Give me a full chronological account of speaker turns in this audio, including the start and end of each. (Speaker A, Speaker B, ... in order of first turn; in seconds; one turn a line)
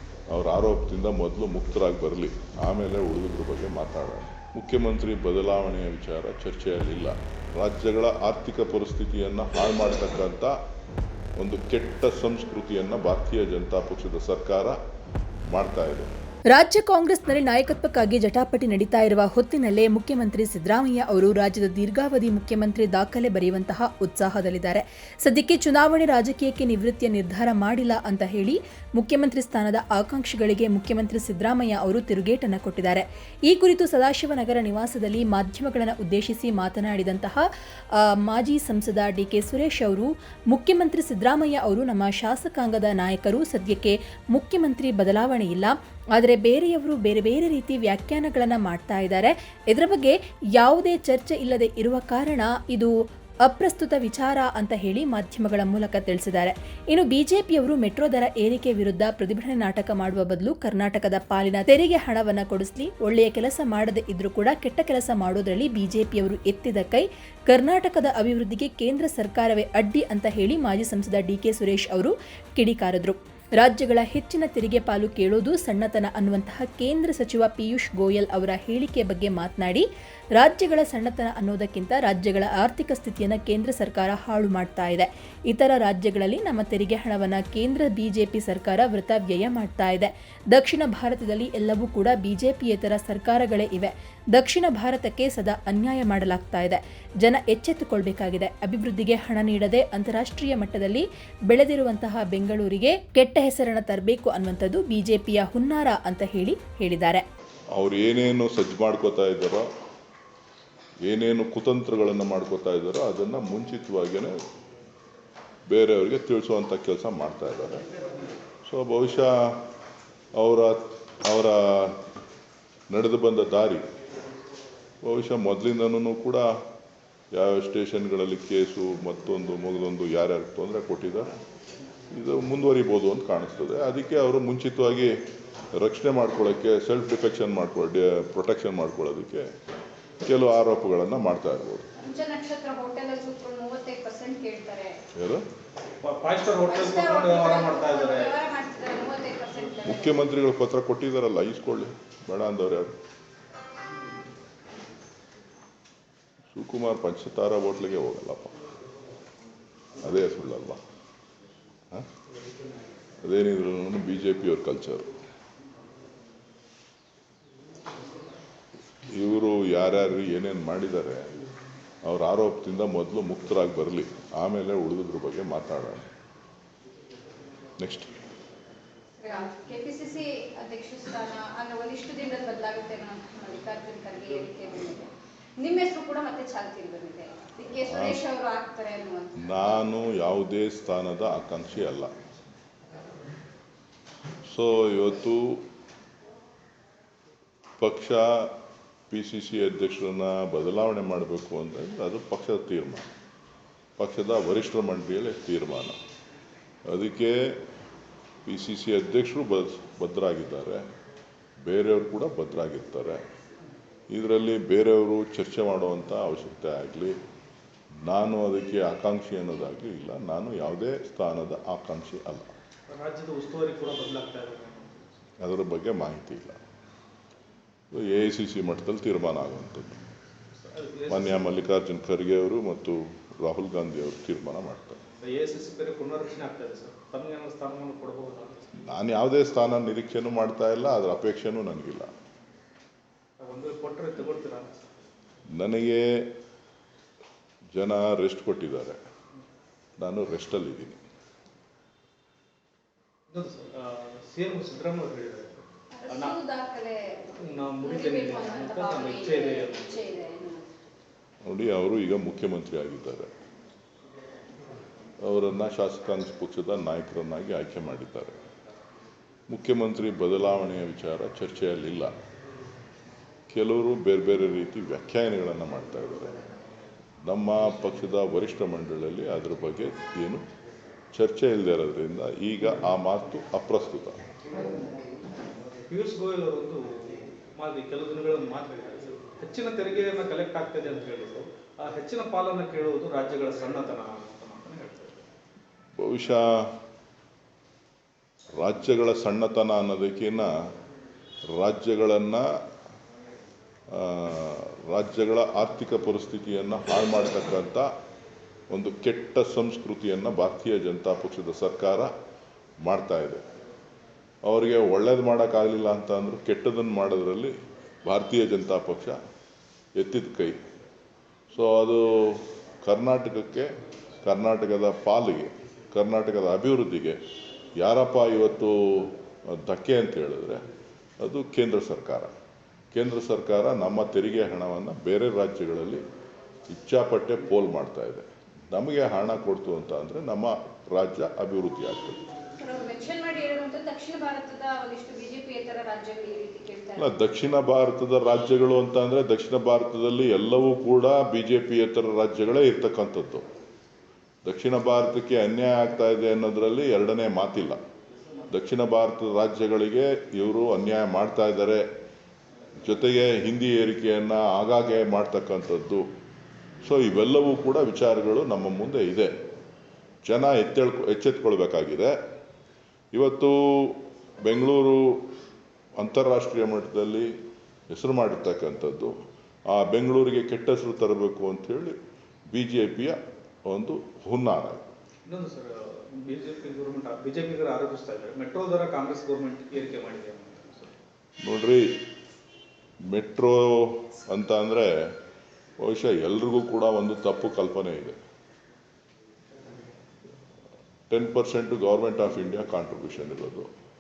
Speaker A: 0.3-10.6
Speaker A: 11.4-14.8
Speaker A: 15.5-16.1
Speaker B: 16.5-37.4
Speaker B: 38.0-52.9
Speaker B: 53.5-107.2
Speaker A: 107.7-109.7
Speaker A: 111.0-114.4
Speaker A: 115.7-117.8
Speaker A: 118.7-119.6
Speaker A: 120.3-122.0
Speaker A: 122.9-123.8
Speaker A: 125.0-126.5
Speaker A: 127.3-131.3
Speaker A: 132.1-135.2
Speaker A: 135.7-139.5
Speaker A: 140.2-141.9
Speaker C: 142.0-145.0
Speaker A: 145.2-145.4
Speaker D: 146.0-148.4
Speaker C: 146.6-150.2
Speaker A: 149.8-152.9
Speaker A: 156.5-158.6
Speaker A: 160.0-160.8
Speaker A: 163.2-165.1
Speaker A: 169.1-171.3
Speaker A: 172.0-176.1
Speaker A: 177.8-178.1
Speaker C: 179.2-189.7
Speaker A: 187.9-188.2
Speaker A: 189.4-192.1
Speaker A: 194.5-195.6
Speaker A: 197.8-198.5
Speaker A: 199.1-203.1
Speaker A: 204.0-206.0
Speaker A: 206.9-207.6
Speaker A: 208.4-210.8
Speaker A: 211.7-213.2
Speaker A: 214.1-217.2
Speaker A: 218.1-222.5
Speaker D: 222.9-225.2
Speaker A: 225.4-226.6
Speaker A: 227.9-230.0
Speaker D: 230.7-231.5
Speaker A: 231.1-235.0
Speaker D: 235.2-238.7
Speaker A: 238.8-242.1
Speaker D: 243.4-244.8
Speaker A: 245.5-246.3
Speaker A: 247.7-249.0
Speaker A: 250.0-251.0
Speaker D: 253.3-256.4
Speaker C: 255.9-260.7
Speaker D: 257.4-260.1
Speaker A: 261.4-263.3
Speaker A: 265.2-268.4
Speaker A: 269.5-272.1
Speaker A: 273.5-276.4
Speaker A: 277.2-280.4
Speaker A: 281.1-284.2
Speaker D: 285.9-295.2
Speaker A: 296.0-296.7
Speaker A: 298.6-300.5
Speaker A: 301.5-302.4
Speaker A: 303.9-307.9
Speaker A: 308.7-312.1
Speaker A: 312.8-313.4
Speaker A: 314.4-319.2
Speaker A: 320.0-320.6
Speaker A: 321.5-323.7
Speaker A: 324.2-327.2
Speaker A: 327.8-330.6
Speaker A: 331.2-332.3
Speaker A: 332.9-336.0
Speaker A: 336.7-342.2
Speaker C: 342.6-347.3
Speaker A: 347.0-353.4
Speaker A: 354.4-357.8
Speaker A: 358.5-361.9
Speaker A: 362.8-366.1
Speaker A: 366.8-369.3
Speaker A: 370.2-372.1
Speaker A: 373.1-375.2
Speaker A: 376.0-377.3
Speaker A: 377.9-379.2
Speaker A: 379.7-382.0
Speaker A: 382.5-384.9
Speaker D: 385.3-391.0
Speaker A: 391.4-392.0
Speaker A: 393.1-395.1
Speaker A: 395.8-398.2
Speaker A: 401.1-403.7